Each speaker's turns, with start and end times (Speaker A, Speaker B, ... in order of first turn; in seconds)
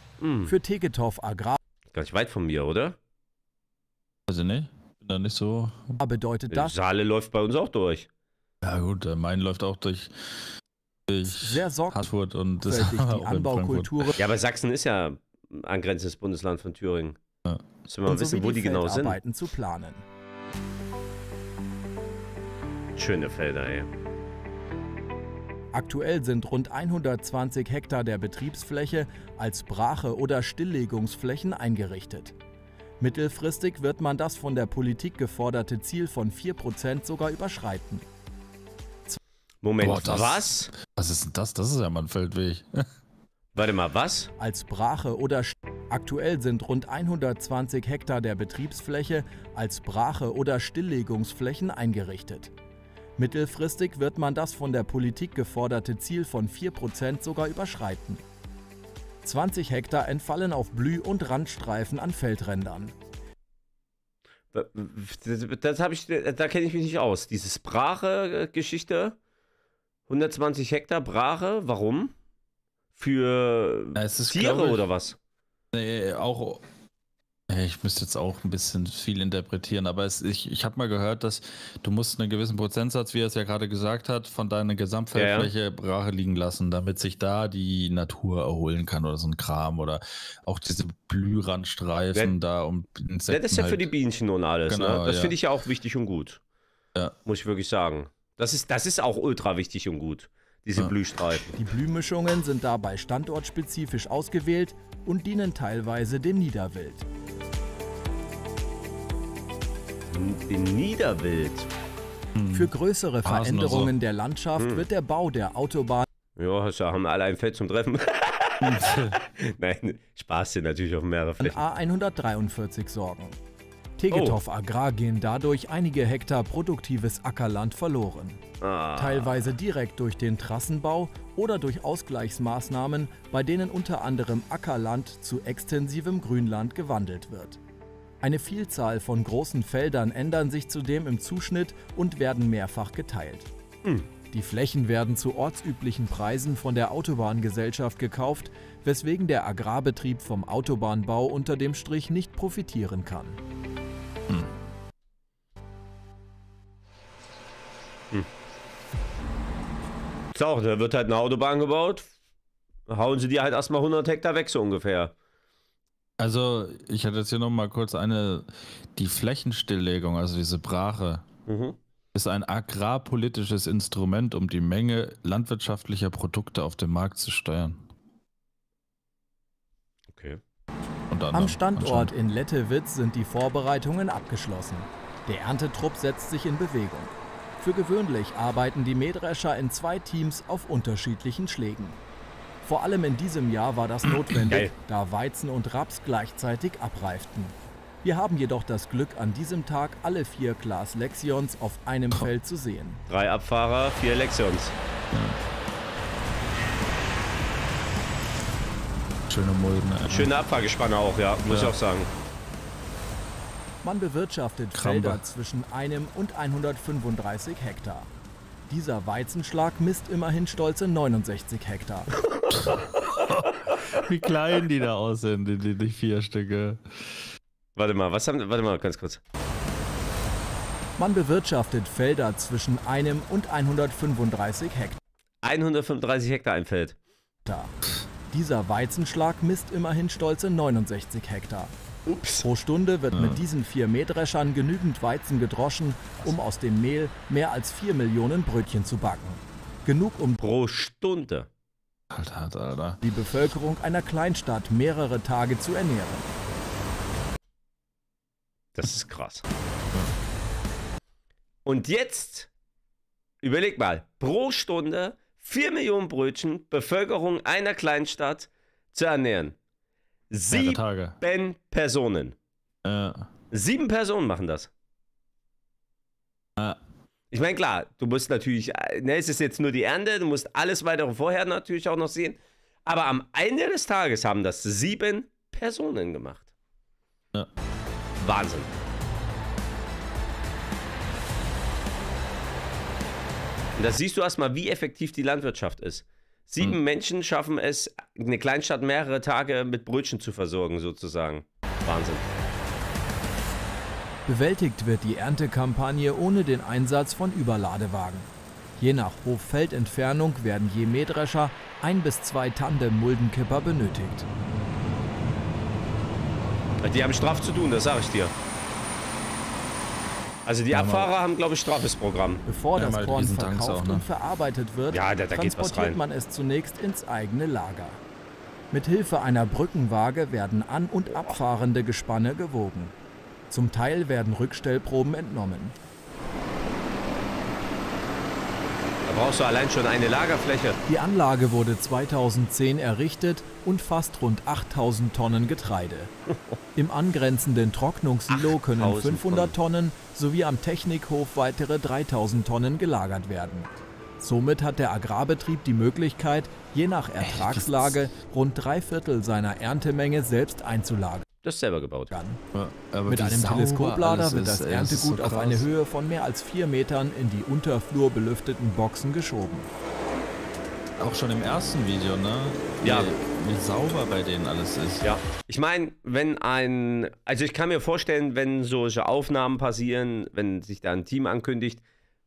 Speaker A: 0.2-0.5, 1.9-3.0, 6.5-8.1, 14.2-17.2, 17.9-19.2, 23.0-23.9, 39.6-40.7, 43.5-44.3, 64.5-69.2, 70.1-72.1, 73.0-75.2, 85.1-85.5, 93.3-96.4, 97.2-101.6, 110.1-111.7, 114.6-114.8, 116.4-121.6, 124.1-124.4, 128.6-129.4, 160.3-162.1, 162.9-165.1, 171.5-171.8, 180.1-180.4, 203.1-204.7, 210.1-212.1, 227.8-229.2, 235.4-237.0, 242.1-242.5, 250.4-251.5, 258.8-259.4, 261.6-262.5, 263.4-269.6, 270.3-272.3, 273.5-274.7, 277.3-286.5, 288.2-288.7, 293.8-302.3, 316.8-318.3, 320.4-322.4, 324.9-326.0, 339.1-340.8, 348.3-349.5, 361.4-362.1, 372.8-373.1, 375.0-381.8
Speaker B: 0.5-1.6, 6.0-6.8, 11.3-14.2, 18.1-20.0, 25.7-32.4, 33.0-38.1, 44.4-52.5, 53.2-58.2, 59.2-63.0, 101.5-107.0, 112.5-116.1, 121.4-123.3, 124.0-128.4, 129.0-137.6, 138.2-143.5, 144.3-153.4, 181.3-192.0, 192.6-203.0, 213.8-218.1, 218.7-222.1, 231.0-235.0, 237.5-237.8, 238.3-241.8, 242.4-250.5, 253.0-256.3, 304.3-314.3, 322.5-328.0, 328.7-332.9, 333.5-335.8, 340.9-346.1, 346.8-361.2, 362.1-362.4, 363.1-369.7
Speaker C: 4.3-6.0, 8.6-10.4, 11.1-14.2, 39.8-42.9, 74.0-74.8, 75.7-76.6, 77.5-93.9, 94.7-95.4, 112.3-112.7, 113.2-113.9, 118.6-119.2, 166.2-171.2, 172.1-177.8, 181.1-182.1, 205.1-205.4, 209.3-210.3, 211.4-211.8, 214.7-215.2, 222.5-227.1, 243.1-243.4, 252.1-253.0, 270.5-271.2, 272.8-273.3, 320.7-321.1, 322.8-324.1, 357.2-358.0, 362.5-365.6, 371.0-375.1